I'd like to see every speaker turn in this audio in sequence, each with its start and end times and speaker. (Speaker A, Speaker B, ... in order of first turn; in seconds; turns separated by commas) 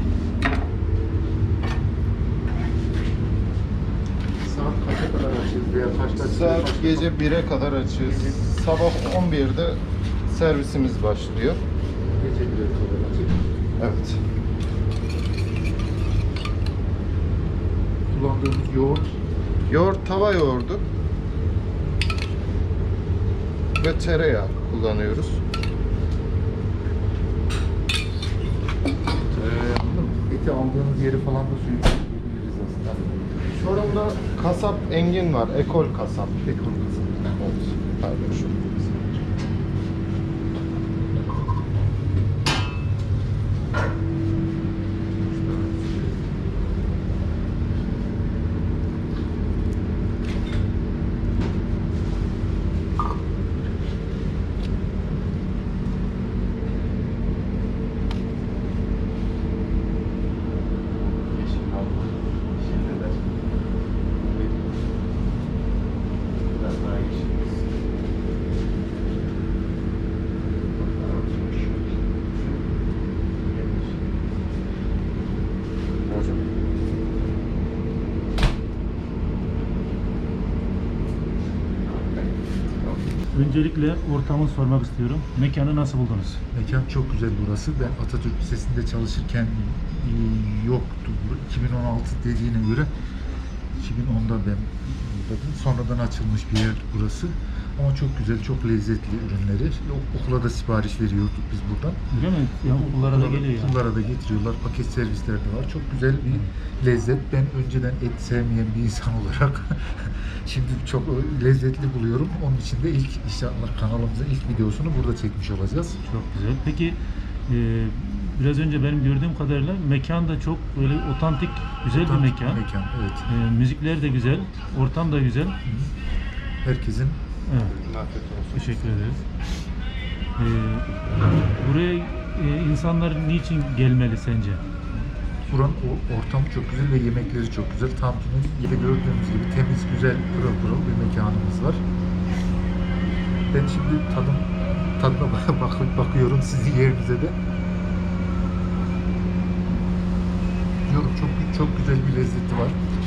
Speaker A: 4.4-7.2, Speaker B: 6.2-11.6, Speaker A: 8.0-8.4, Speaker A: 12.2-13.4, Speaker B: 13.8-14.2, Speaker A: 18.1-19.2, Speaker B: 19.7-20.8, Speaker B: 23.8-25.4, Speaker A: 29.3-33.5, Speaker B: 33.5-36.4, Speaker A: 36.5-37.3, Speaker B: 37.4-39.1, Speaker A: 61.3-63.3, Speaker A: 64.3-64.5, Speaker A: 66.6-67.4, Speaker A: 71.0-71.8, Speaker A: 73.5-73.8, Speaker B: 76.1-76.4, Speaker C: 83.3-86.4, Speaker A: 86.5-92.9, Speaker A: 93.8-102.0, Speaker C: 102.1-103.8, Speaker A: 102.7-116.0, Speaker C: 116.1-122.6, Speaker A: 121.9-123.3, Speaker C: 123.3-125.6, Speaker A: 125.7-125.9, Speaker A: 126.6-127.2, Speaker C: 127.5-127.8, Speaker B: 127.8-129.2, Speaker C: 128.5-129.2, Speaker C: 130.4-130.9, Speaker C: 131.6-134.6, Speaker A: 135.5-141.8, Speaker A: 143.5-147.4, Speaker A: 150.8-152.8